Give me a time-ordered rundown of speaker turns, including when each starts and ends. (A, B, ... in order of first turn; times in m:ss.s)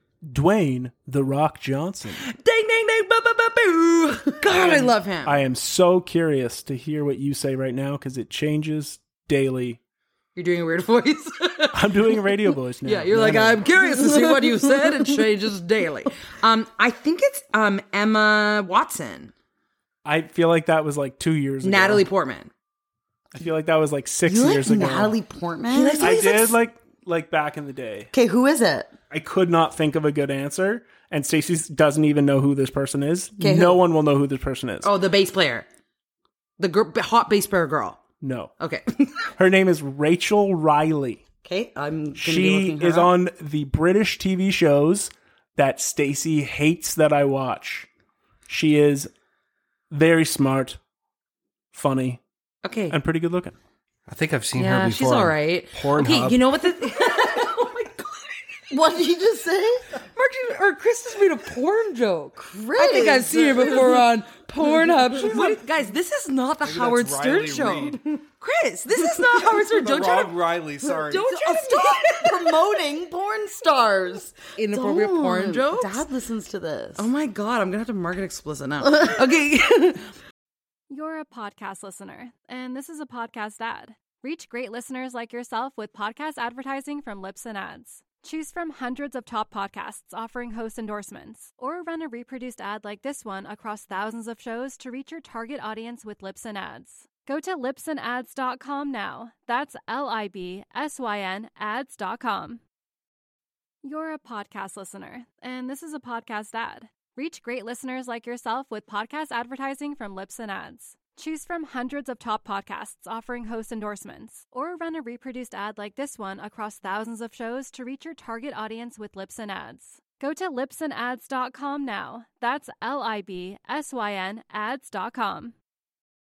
0:00.3-0:02.2 A
0:02.2-0:05.4 B
0:04.4-0:09.8 A
0:10.4-0:11.9 B
0:11.7-0:13.6 A
0:12.8-0:19.3 B
0:14.0-0:15.0 C
0:20.0-0:22.1 A
0:21.6-0:22.5 B
0:23.3-0:25.2 A
0:24.2-0:26.2 C
0:25.7-0:26.6 B
0:26.0-0:28.1 A
0:28.1-0:28.9 C
0:29.1-0:34.9 A
0:33.4-0:33.8 C
0:34.8-0:35.7 B
0:36.6-0:38.0 B
0:38.2-0:38.5 A
0:38.6-0:39.3 B
0:39.4-0:41.2 A
0:41.4-0:43.1 C
0:42.2-0:47.9 A
0:48.5-0:49.1 A
0:49.9-0:50.8 A
0:51.7-0:52.2 A
0:52.6-0:53.0 B
0:52.9-0:53.5 A
0:54.1-0:56.4 D
0:54.6-0:58.6 B
0:58.7-0:59.8 C
1:00.1-1:12.5 B
1:02.4-1:04.0 C
1:06.6-1:08.0 D
1:09.3-1:11.3 D
1:11.3-1:17.1 C
1:14.6-1:16.0 B
1:17.0-1:20.1 B
1:20.9-1:42.6 E
1:43.8-2:05.6 E